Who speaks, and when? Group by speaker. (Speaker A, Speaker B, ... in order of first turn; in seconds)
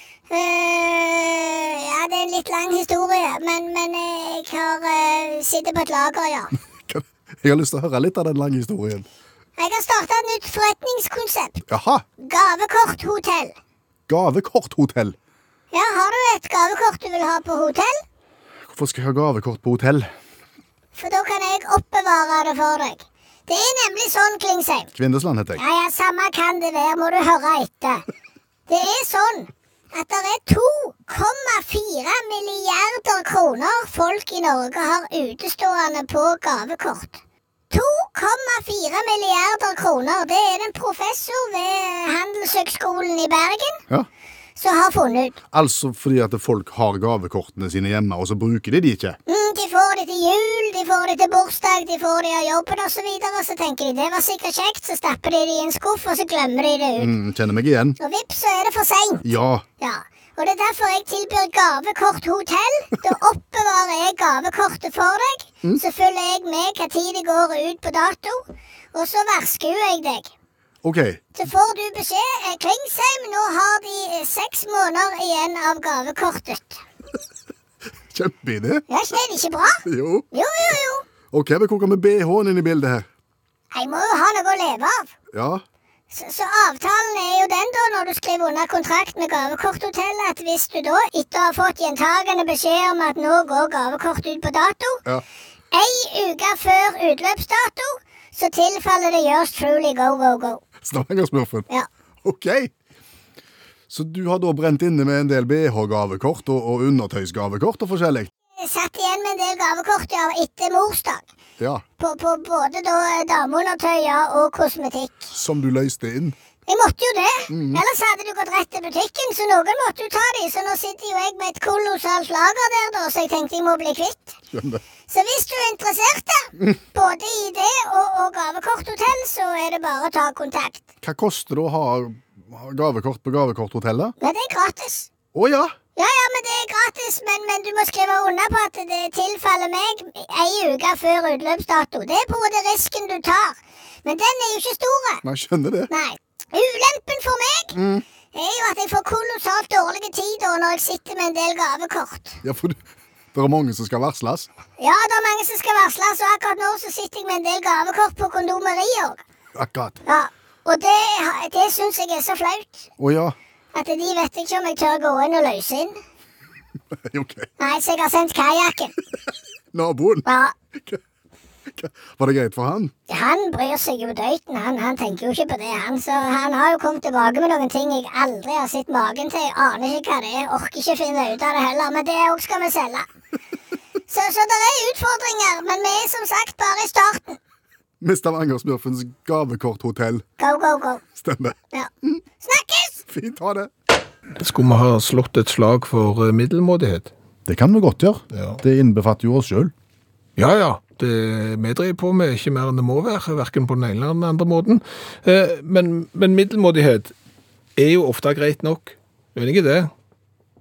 Speaker A: 0.3-6.5, 9.6-11.6, 12.2-13.6, 15.7-18.0, 21.0-24.9, 25.6-28.1, 28.7-37.2, 37.7-43.8, 44.6-45.4, 49.3-57.1, 58.0-59.2, 59.8-70.3, 71.4-76.8, 78.9-81.0, 83.7-85.1, 86.1-95.0, 95.7-100.6, 108.5-111.3, 112.0-115.3, 116.7-124.4, 125.1-130.9, 134.2-135.1, 136.0-145.2, 145.9-147.8, 148.3-152.4, 154.8-159.2, 160.1-162.9, 163.7-166.0, 167.6-168.9, 170.2-170.5, 173.1-183.1, 184.1-187.4, 190.4-191.1, 192.4-193.0
Speaker B: 6.8-9.1, 11.7-12.1, 14.1-15.2, 18.7-20.1, 24.9-25.6, 45.5-49.2, 57.0-58.0, 59.2-59.6, 70.8-71.2, 78.1-78.8, 79.8-80.3, 81.3-83.1, 85.3-85.6, 100.8-101.7, 102.2-102.7, 103.9-108.3, 111.6-111.8, 115.3-116.4, 117.5-117.8, 124.5-124.8, 131.0-134.2, 135.3-135.8, 145.2-145.9, 147.7-148.0, 152.4-152.8, 153.3-154.5, 159.6-160.0, 163.0-163.4, 167.0-167.5, 169.7-171.0, 171.7-172.9, 188.0-190.3, 191.2-192.2, 193.1-193.7, 197.5-199.7
Speaker C: 194.4-197.1, 198.3-198.6, 200.4-207.2, 207.8-209.9